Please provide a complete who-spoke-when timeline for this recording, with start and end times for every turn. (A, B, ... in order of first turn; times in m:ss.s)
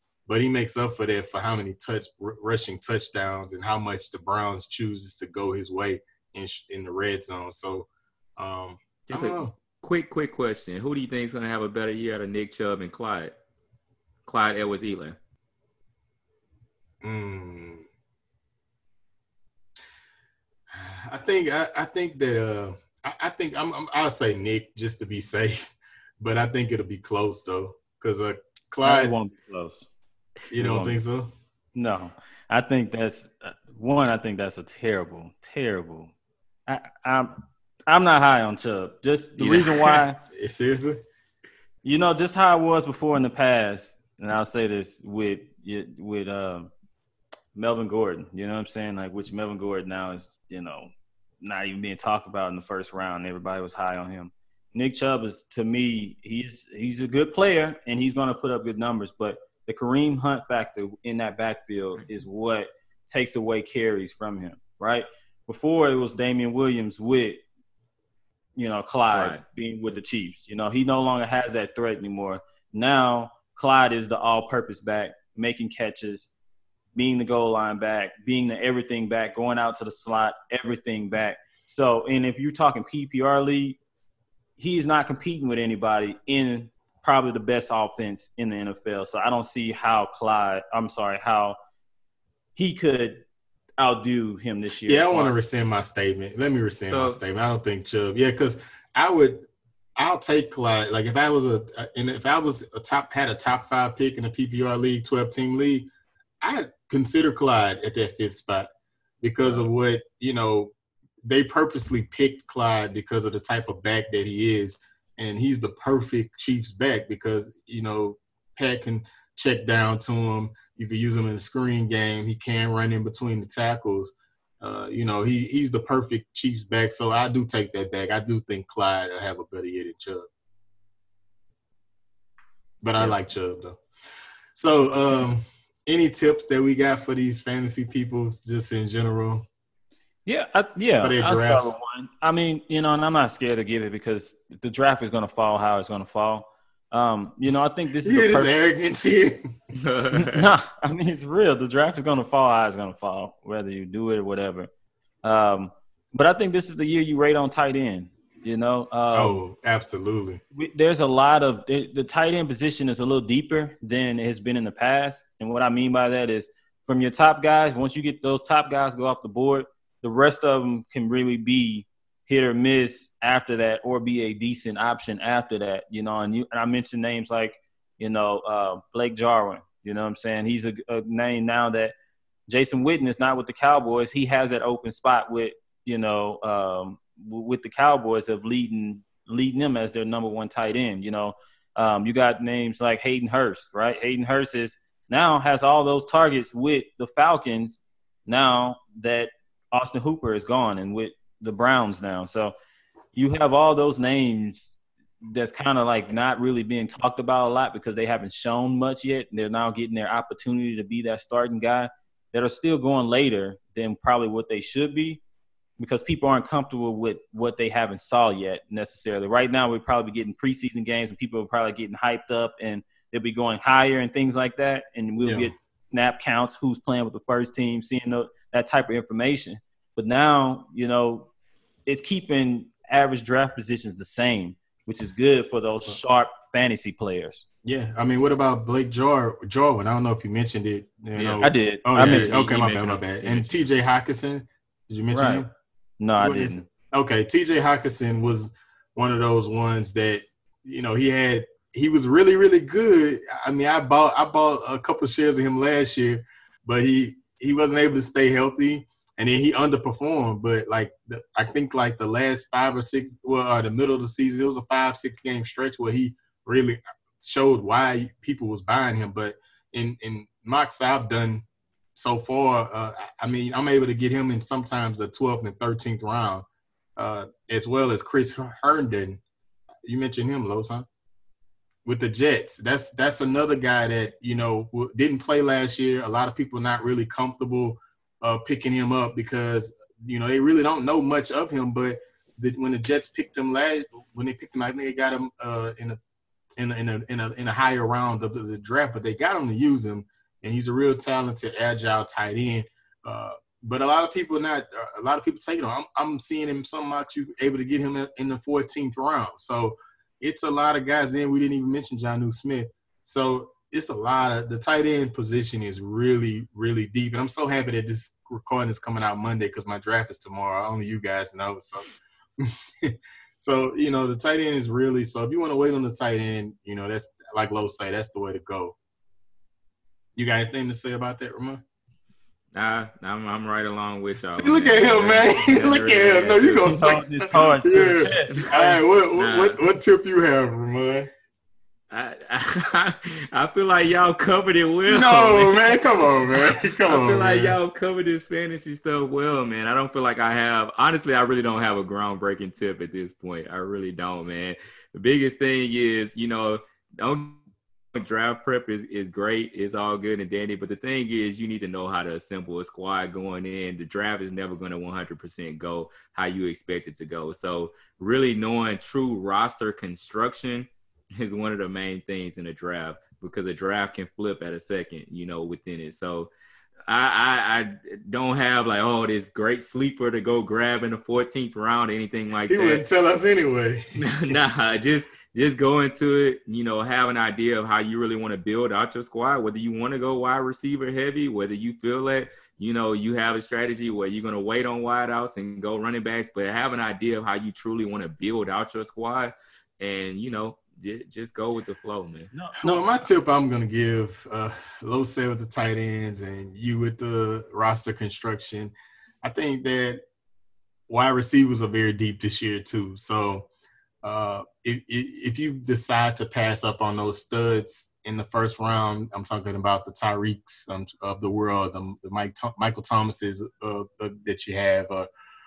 0:00.3-0:09.5 A
0:09.1-0:13.3 B
0:14.3-0:15.2 B
0:17.0-0:17.8 A
0:20.7-0:29.2 A
0:28.8-0:29.9 C
0:30.5-0:31.3 A
0:30.6-0:31.0 C
0:31.8-0:36.1 C
0:36.7-0:40.2 C
0:39.4-0:40.0 B
0:40.3-0:41.0 A
0:41.8-0:46.7 C
0:47.6-1:07.4 C
1:08.6-1:16.3 C
1:09.1-1:09.4 B
1:17.0-1:23.8 C
1:24.6-1:31.6 C
1:32.6-1:33.2 C
1:33.8-1:35.3 C
1:34.9-1:39.5 A
1:36.9-1:37.2 B
1:40.0-1:45.9 A
1:46.4-1:48.7 A
1:49.2-1:50.7 A
1:51.2-2:10.3 A
2:12.8-2:13.8 A
2:14.6-2:19.5 A
2:20.3-2:28.5 C
2:21.0-2:21.7 A
2:28.0-2:29.5 A
2:29.8-2:30.4 B
2:30.1-2:34.7 C
2:35.2-2:39.4 C
2:39.1-2:40.4 A
2:40.5-3:01.9 C
3:02.5-3:22.6 C
3:23.1-3:35.2 C
3:35.8-3:51.3 C
3:45.2-3:45.5 A
3:51.9-3:57.4 C
3:57.6-4:05.5 A
4:01.2-4:03.6 B
4:01.4-4:02.4 C
4:05.1-4:05.5 C
4:06.0-4:06.7 C
4:06.2-4:31.4 A
4:32.0-4:39.2 A
4:39.8-4:40.9 A
4:41.8-4:56.0 A
4:56.6-5:28.8 A
5:30.2-5:31.6 A
5:32.5-5:37.0 B
5:34.3-5:41.1 A
5:36.6-5:38.8 C
5:39.1-5:39.6 B
5:41.9-5:57.4 B
5:44.9-5:47.6 A
5:57.9-6:16.3 B
6:16.9-6:22.8 B
6:22.5-6:24.4 A
6:24.0-6:42.3 B
6:42.3-6:43.1 C
6:42.6-6:50.0 A
6:50.9-6:53.5 A
6:54.0-7:05.1 A